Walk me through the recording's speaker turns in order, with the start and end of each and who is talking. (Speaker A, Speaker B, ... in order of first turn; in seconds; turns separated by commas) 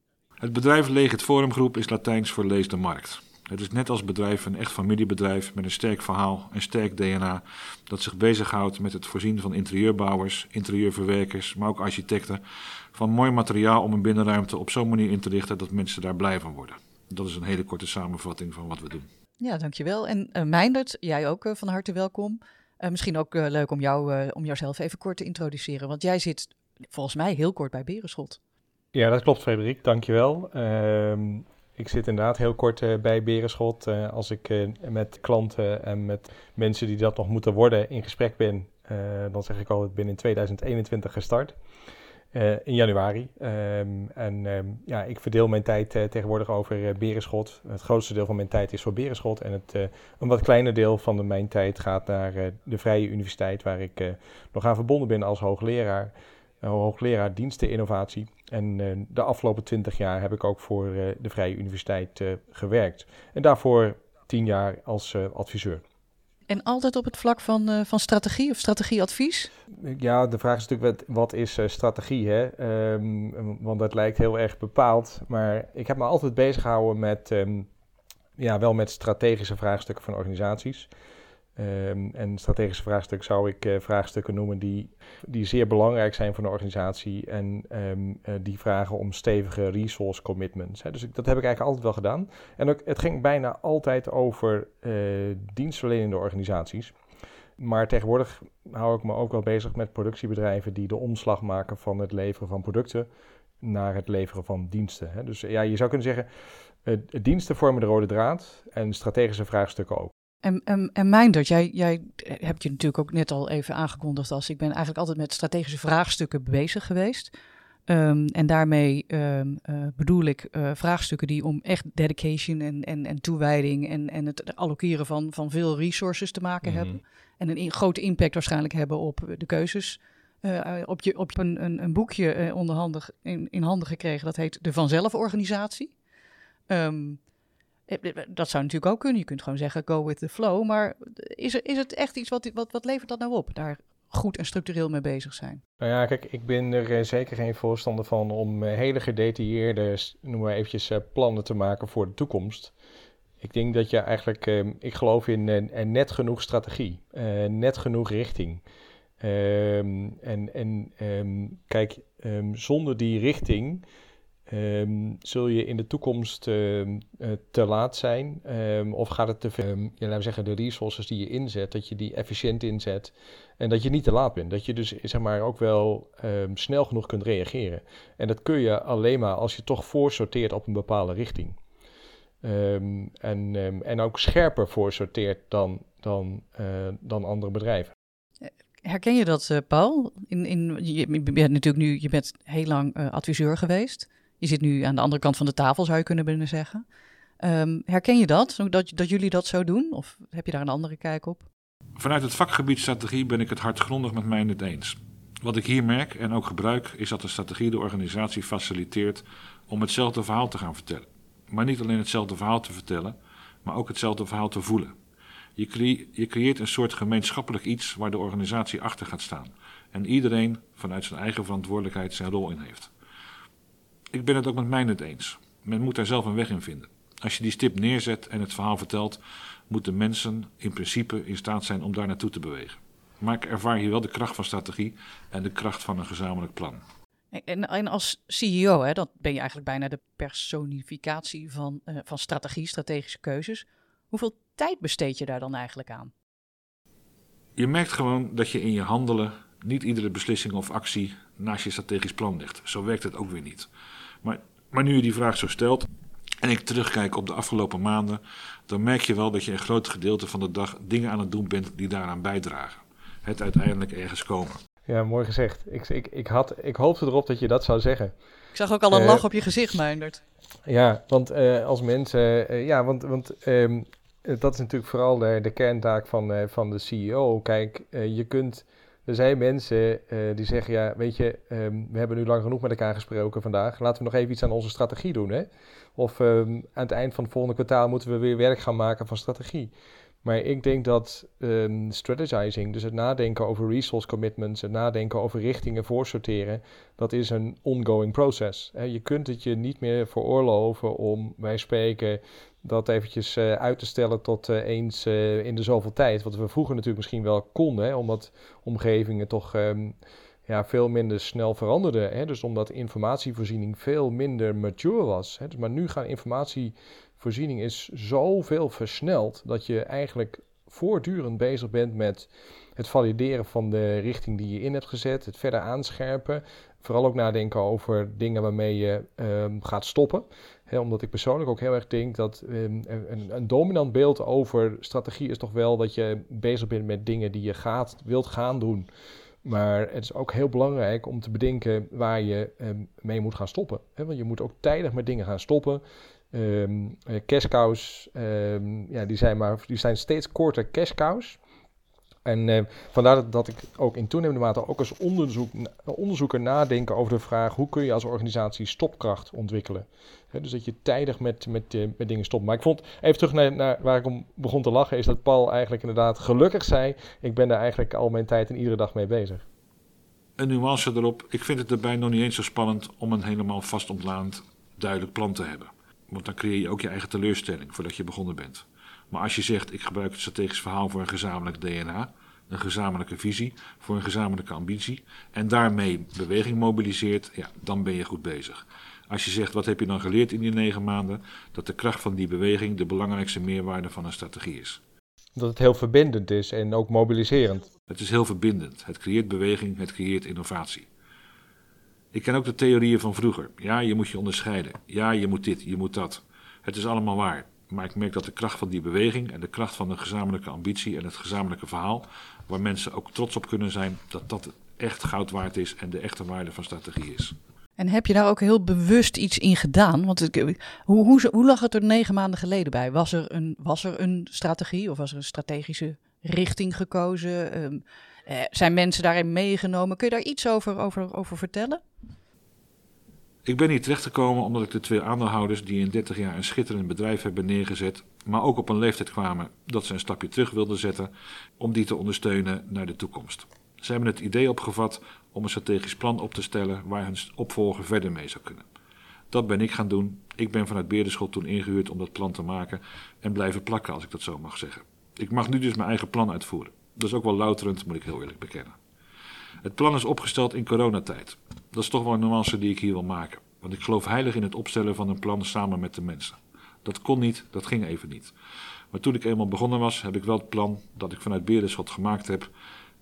Speaker A: 0.4-12.4, Speaker A: 12.9-19.1, Speaker B: 19.4-28.4, Speaker C: 28.9-41.6, Speaker C: 42.3-65.8, Speaker B: 66.5-69.5, Speaker C: 69.7-77.7, Speaker C: 78.4-80.9, Speaker C: 81.6-96.9, Speaker C: 97.6-103.1, Speaker C: 103.6-106.3, Speaker C: 106.8-110.1, Speaker B: 110.4-117.3, Speaker B: 117.9-135.9, Speaker B: 136.7-137.2, Speaker B: 137.9-145.6, Speaker C: 145.8-152.7, Speaker C: 153.4-158.6, Speaker C: 159.2-163.8, Speaker C: 164.5-181.6, Speaker C: 182.4-187.9, Speaker B: 188.4-196.8, Speaker B: 197.4-201.4, Speaker A: 202.0-214.9, Speaker A: 215.6-222.9, Speaker A: 224.1-236.8, Speaker B: 237.3-246.1, Speaker A: 247.6-253.7, Speaker A: 254.2-255.9, Speaker A: 256.4-264.6, Speaker C: 264.9-268.1, Speaker B: 268.6-270.2, Speaker C: 268.9-269.2, Speaker C: 270.7-289.7, Speaker C: 290.2-309.9, Speaker C: 310.5-338.9, Speaker C: 339.4-351.4, Speaker C: 352.2-369.4, Speaker A: 370.4-394.8, Speaker C: 395.4-397.7, Speaker A: 397.9-400.9, Speaker A: 402.1-417.4, Speaker B: 417.8-431.8, Speaker A: 433.4-448.7, Speaker A: 449.3-458.8, Speaker A: 459.6-468.3, Speaker A: 468.9-472.5